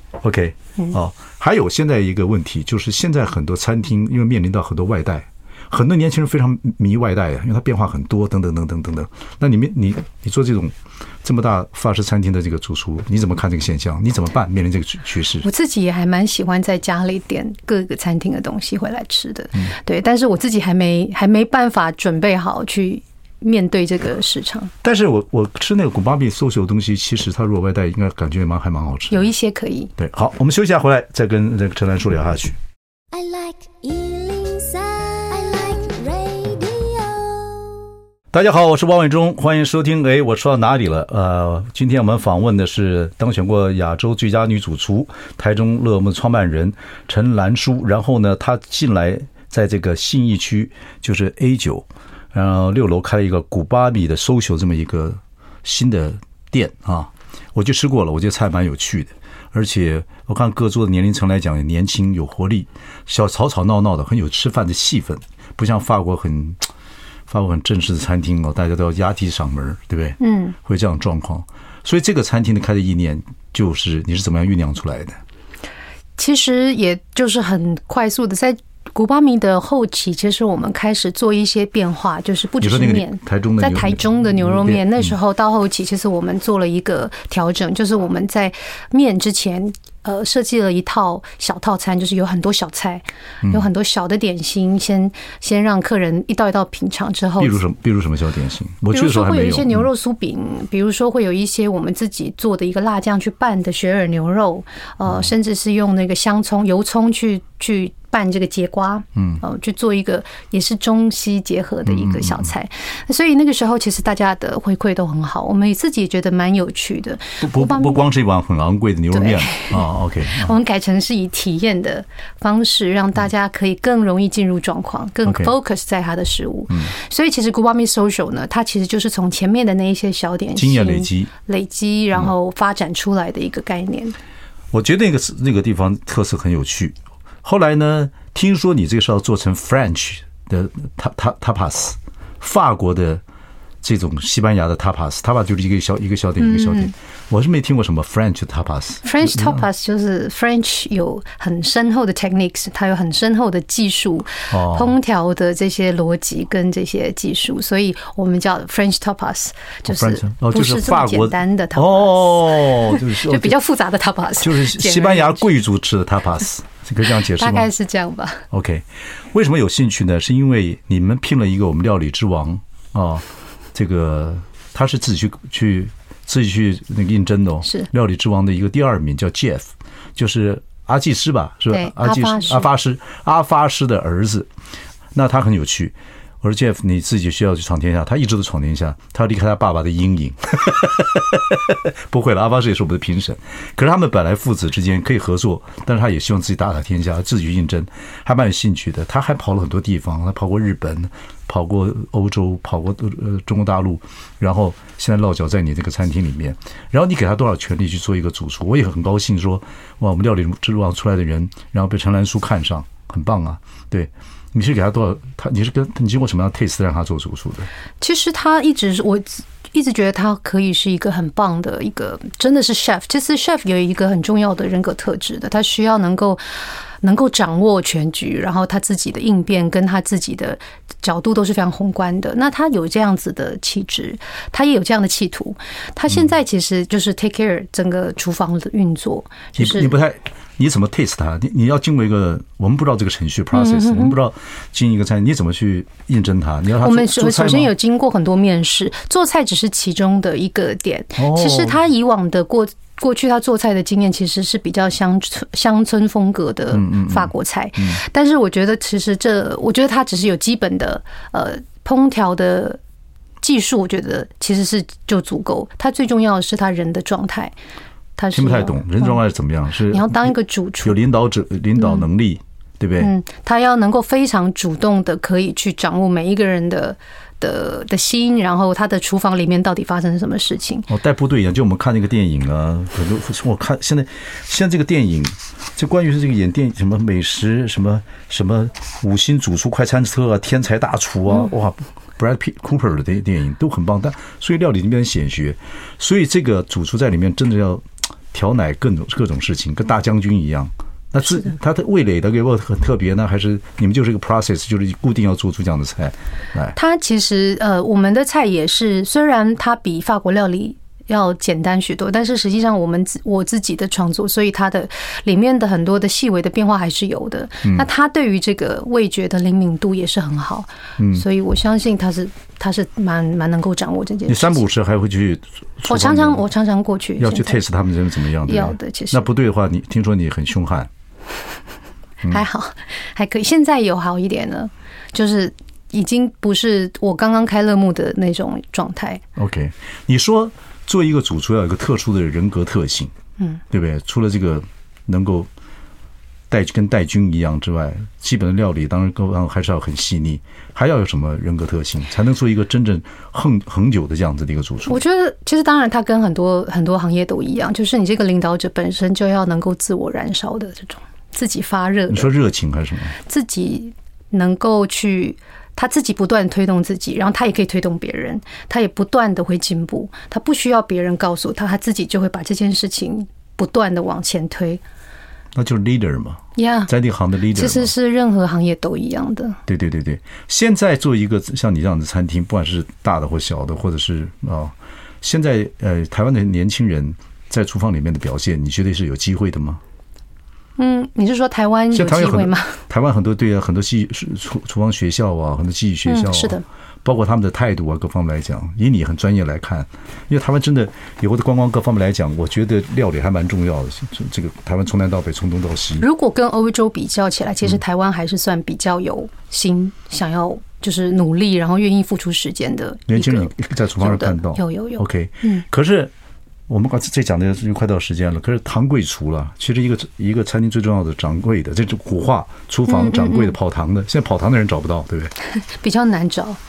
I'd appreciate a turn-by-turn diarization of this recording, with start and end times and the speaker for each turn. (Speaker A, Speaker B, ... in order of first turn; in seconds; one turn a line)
Speaker A: 0.2-15.4
Speaker B: 15.4-24.7
Speaker A: 24.8-29.3
Speaker B: 29.1-29.9
Speaker A: 30.0-32.6
Speaker C: 33.1-37.9
Speaker A: 38.3-66.6
Speaker A: 67.3-75.2
Speaker B: 70.2-70.5
Speaker B: 76.2-97.6
Speaker A: 82.6-85.1
Speaker A: 97.4-99.9
Speaker B: 98.9-118.0
Speaker A: 109.2-109.4
Speaker A: 111.8-112.5
Speaker A: 117.4-120.5
Speaker B: 119.1-134.2
Speaker A: 125.2-125.5
Speaker A: 130.6-131.3
Speaker A: 134.7-143.2
Speaker A: 143.8-149.6
Speaker B: 146.4-146.9
Speaker B: 149.0-165.4
Speaker A: 154.5-154.9
Speaker A: 159.8-163.6
Speaker A: 164.4-167.7
Speaker B: 167.3-168.4
Speaker A: 168.5-184.5
Speaker B: 181.7-182.7
Speaker A: 185.1-217.7
Speaker B: 218.0-226.4
Speaker B: 227.0-239.9
Speaker A: 239.6-247.7
Speaker B: 243.5-244.2
Speaker B: 246.8-262.8
Speaker A: 251.2-251.8
Speaker A: 256.7-258.0
Speaker B: 263.4-267.5
Speaker B: 268.2-269.2
Speaker A: 268.3-273.1
Speaker B: 269.9-271.0
Speaker B: 271.8-272.0
Speaker B: 273.0-280.9
Speaker A: 280.9-306.8
Speaker B: 306.7-324.7
Speaker A: 321.0-321.2
Speaker A: 324.3-326.4
Speaker B: 325.9-327.6
Speaker A: 327.2-330.9
Speaker B: 328.4-329.2
Speaker B: 332.3-339.2
Speaker A: 339.4-343.1
Speaker A: 343.7-345.5
Speaker A: 346.5-355.0
Speaker B: 354.9-362.3
Speaker A: 362.1-363.1
Speaker B: 363.2-374.8
Speaker A: 375.5-377.9
Speaker B: 376.6-376.9
Speaker B: 377.5-379.6
Speaker A: 379.7-389.8
Speaker B: 390.8-392.8
Speaker A: 391.9-406.0
Speaker B: 396.1-396.6
Speaker B: 406.0-415.6
Speaker A: 413.1-416.1
Speaker A: 416.7-425.3
Speaker B: 422.9-423.5
Speaker B: 425.7-426.6